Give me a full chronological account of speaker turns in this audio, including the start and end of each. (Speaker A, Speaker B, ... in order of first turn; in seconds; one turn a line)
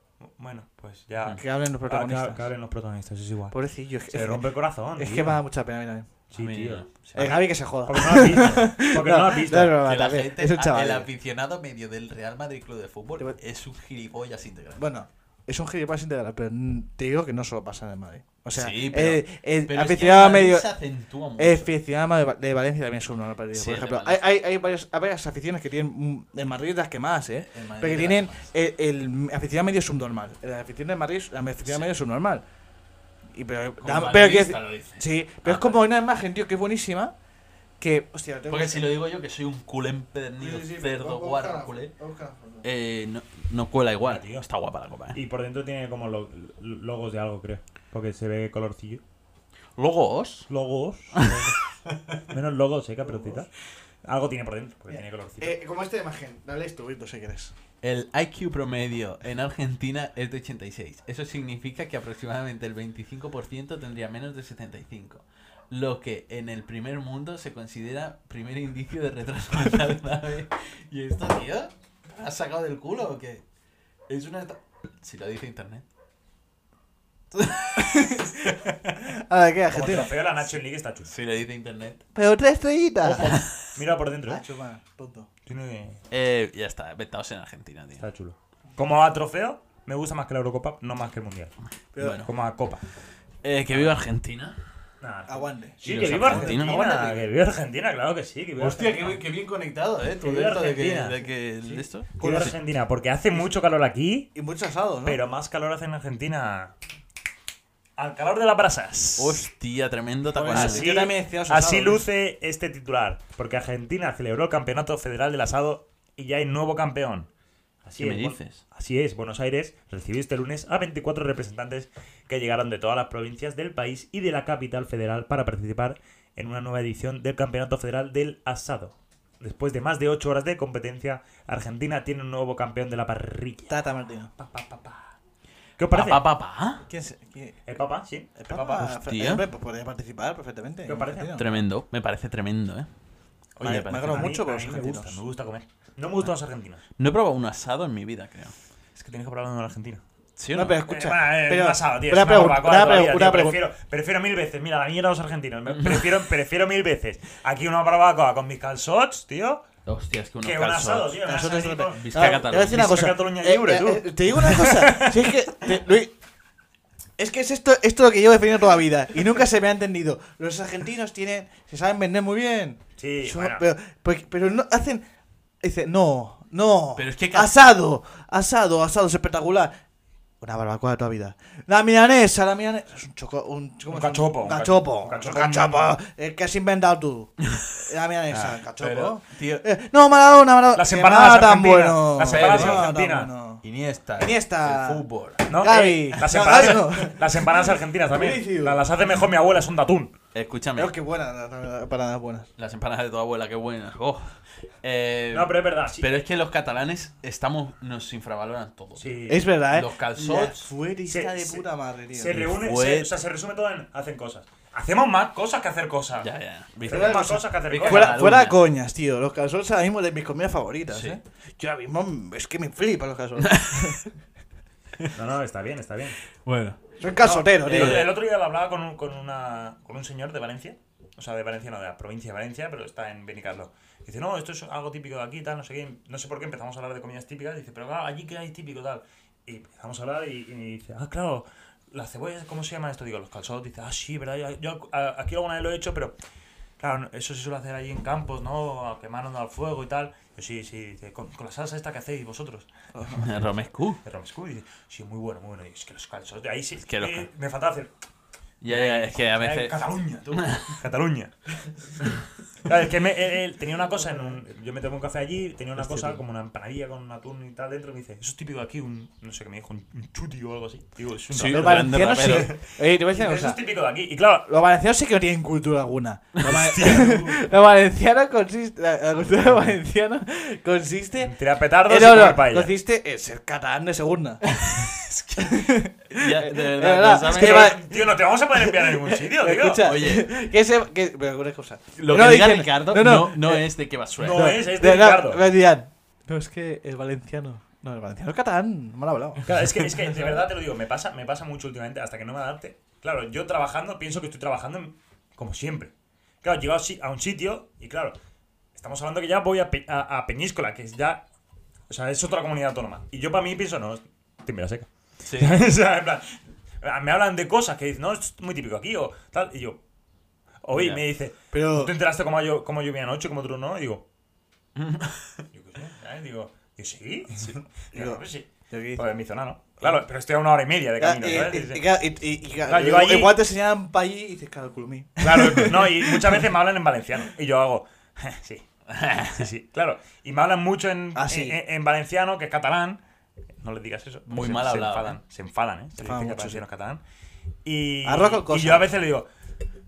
Speaker A: 0.4-3.6
Speaker B: 1.4-2.5
Speaker B: 3.5-6.1
Speaker A: 4.1-5.4
Speaker A: 6.3-9.8
Speaker C: 6.3-7.3
Speaker B: 7.2-11.1
Speaker C: 9.8-14.9
Speaker B: 14.8-20.7
Speaker C: 18.5-21.7
Speaker B: 21.4-32.5
Speaker C: 23.5-24.2
Speaker C: 27.5-28.5
Speaker C: 31.6-31.9
Speaker B: 33.3-37.1
Speaker C: 33.8-35.8
Speaker B: 37.8-38.9
Speaker C: 38.5-41.9
Speaker B: 40.4-42.6
Speaker C: 42.6-45.2
Speaker A: 44.0-44.5
Speaker A: 45.1-49.0
Speaker C: 49.8-50.5
Speaker A: 50.5-51.6
Speaker C: 51.1-52.2
Speaker A: 52.2-53.5
Speaker B: 53.0-53.4
Speaker A: 54.0-55.6
Speaker B: 54.9-57.5
Speaker C: 57.8-73.4
Speaker C: 74.1-75.9
Speaker C: 77.3-78.7
Speaker B: 77.8-80.1
Speaker A: 79.7-81.1
Speaker C: 81.1-82.0
Speaker B: 82.2-83.4
Speaker C: 83.0-83.7
Speaker A: 83.2-84.4
Speaker B: 84.3-85.3
Speaker A: 85.5-86.0
Speaker C: 86.1-88.0
Speaker A: 88.0-91.5
Speaker B: 91.9-92.3
Speaker C: 92.0-92.3
Speaker A: 92.2-92.8
Speaker C: 93.4-94.6
Speaker A: 95.0-99.2
Speaker B: 95.3-97.3
Speaker C: 95.8-96.8
Speaker C: 98.6-102.5
Speaker A: 100.2-101.2
Speaker B: 101.7-102.6
Speaker A: 102.2-104.3
Speaker B: 104.3-105.2
Speaker A: 105.0-106.7
Speaker A: 108.0-109.4
Speaker C: 109.2-110.9
Speaker B: 110.4-112.1
Speaker A: 110.5-117.3
Speaker A: 117.8-133.7
Speaker C: 118.0-118.6
Speaker B: 133.7-134.3
Speaker A: 134.4-135.1
Speaker A: 135.8-136.2
Speaker C: 135.9-136.9
Speaker B: 136.9-137.6
Speaker A: 137.7-138.8
Speaker B: 138.4-141.5
Speaker C: 138.5-139.5
Speaker A: 140.9-141.5
Speaker C: 141.3-142.9
Speaker A: 143.6-146.8
Speaker C: 143.6-144.3
Speaker B: 143.6-145.2
Speaker C: 147.0-148.5
Speaker A: 148.9-150.0
Speaker C: 150.4-150.8
Speaker B: 150.5-153.6
Speaker A: 150.8-159.7
Speaker C: 155.7-156.1
Speaker C: 159.9-161.2
Speaker A: 160.4-165.3
Speaker B: 161.2-166.1
Speaker C: 161.9-163.1
Speaker B: 167.2-175.0
Speaker A: 173.0-173.7
Speaker B: 175.6-179.7
Speaker C: 177.0-177.5
Speaker B: 180.4-193.6
Speaker A: 183.9-185.9
Speaker C: 187.5-187.7
Speaker C: 188.3-189.7
Speaker A: 190.8-193.3
Speaker C: 192.2-192.9
Speaker C: 193.6-195.5
Speaker B: 194.2-198.9
Speaker A: 195.5-200.1
Speaker C: 200.3-200.9
Speaker B: 200.8-202.5
Speaker C: 202.6-209.1
Speaker A: 205.3-206.1
Speaker A: 209.0-209.5
Speaker B: 209.3-212.4
Speaker C: 209.7-210.7
Speaker A: 211.1-216.3
Speaker C: 212.3-213.2
Speaker C: 216.2-218.7
Speaker A: 216.8-218.4
Speaker B: 216.9-224.0
Speaker C: 220.9-221.2
Speaker C: 223.4-224.1
Speaker A: 225.1-226.2
Speaker C: 226.4-226.8
Speaker B: 227.0-228.1
Speaker A: 227.2-246.2
Speaker C: 227.7-228.1
Speaker A: 246.8-252.7
Speaker B: 252.9-253.2
Speaker C: 253.1-254.0
Speaker A: 254.0-257.9
Speaker C: 256.8-257.3
Speaker C: 258.6-260.8
Speaker A: 258.7-261.3
Speaker A: 262.6-274.5
Speaker C: 265.8-266.2
Speaker C: 271.3-272.5
Speaker B: 271.5-273.6
Speaker B: 274.5-281.3
Speaker C: 276.4-277.2
Speaker A: 276.6-277.2
Speaker A: 281.2-282.7
Speaker B: 281.9-284.4
Speaker C: 284.5-287.8
Speaker B: 285.4-293.7
Speaker A: 287.2-289.9
Speaker C: 289.8-290.3
Speaker C: 292.0-294.6
Speaker A: 294.2-295.5
Speaker B: 294.3-299.6
Speaker A: 299.4-308.2
Speaker A: 308.8-311.2
Speaker A: 311.9-319.8
Speaker C: 315.2-315.6
Speaker A: 320.6-324.1
Speaker C: 320.7-321.0
Speaker B: 321.5-321.9
Speaker C: 324.8-325.4
Speaker A: 325.5-331.8
Speaker B: 327.9-329.0
Speaker B: 331.0-336.4
Speaker A: 332.7-333.4
Speaker A: 335.2-338.6
Speaker C: 338.9-339.5
Speaker A: 339.2-343.0
Speaker B: 341.1-341.6
Speaker A: 343.6-347.0
Speaker C: 344.3-345.2
Speaker B: 346.0-346.6
Speaker A: 347.6-349.3
Speaker B: 348.1-348.9